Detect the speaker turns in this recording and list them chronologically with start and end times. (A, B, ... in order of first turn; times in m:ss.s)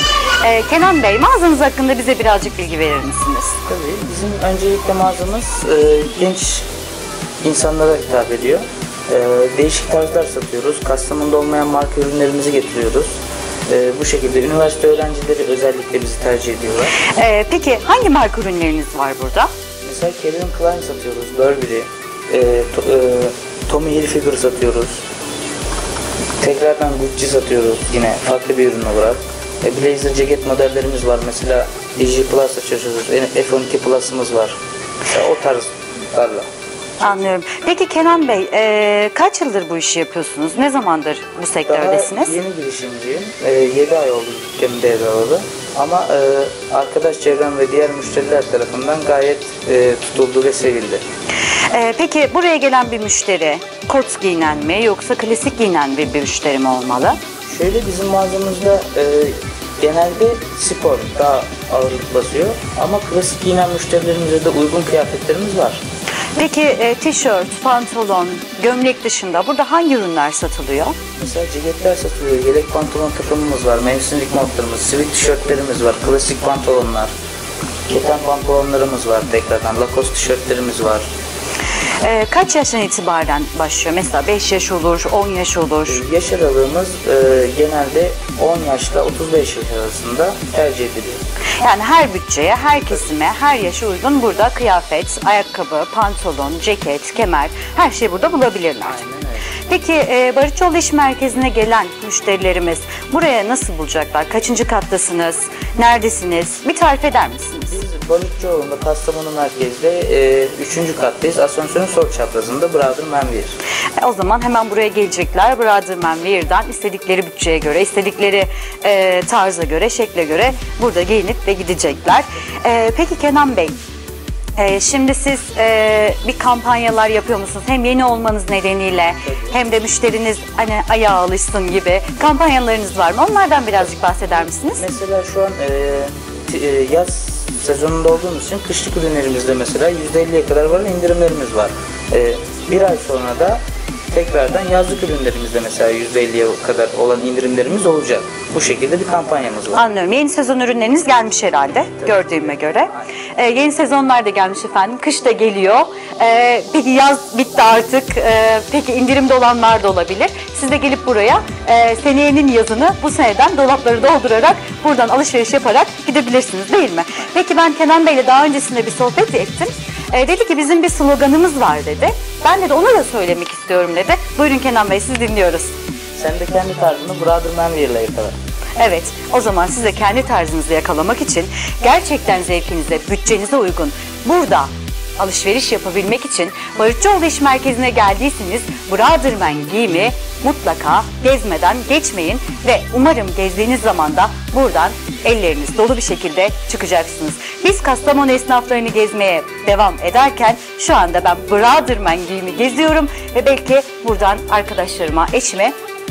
0:00.4-0:03.6 A
0:03.7-0:06.7 B
0:07.4-0:13.1 B
0:13.7-0:17.0 B
0:17.0-0:19.5 A
0:19.8-0:25.0 B
0:26.4-0:36.5 B
0:37.0-0:42.4 A
0:41.7-0:51.0 B
0:51.7-0:57.2 A
0:57.4-1:05.8 B
1:06.4-1:11.0 A
1:11.2-1:17.1 B
1:17.9-1:21.1 B
1:22.0-1:26.0 A
1:25.9-1:31.2 B
1:31.6-1:39.0 A
1:38.8-1:39.5 B
1:39.6-1:47.8 A
1:47.7-1:53.6 B
1:54.0-2:03.8 A
2:04.6-2:14.8 A
2:09.2-2:09.6 B
2:14.7-2:29.8 B
2:29.7-2:55.7 A
2:32.0-2:32.6 B
2:56.2-2:58.3 B
2:58.8-3:25.8 A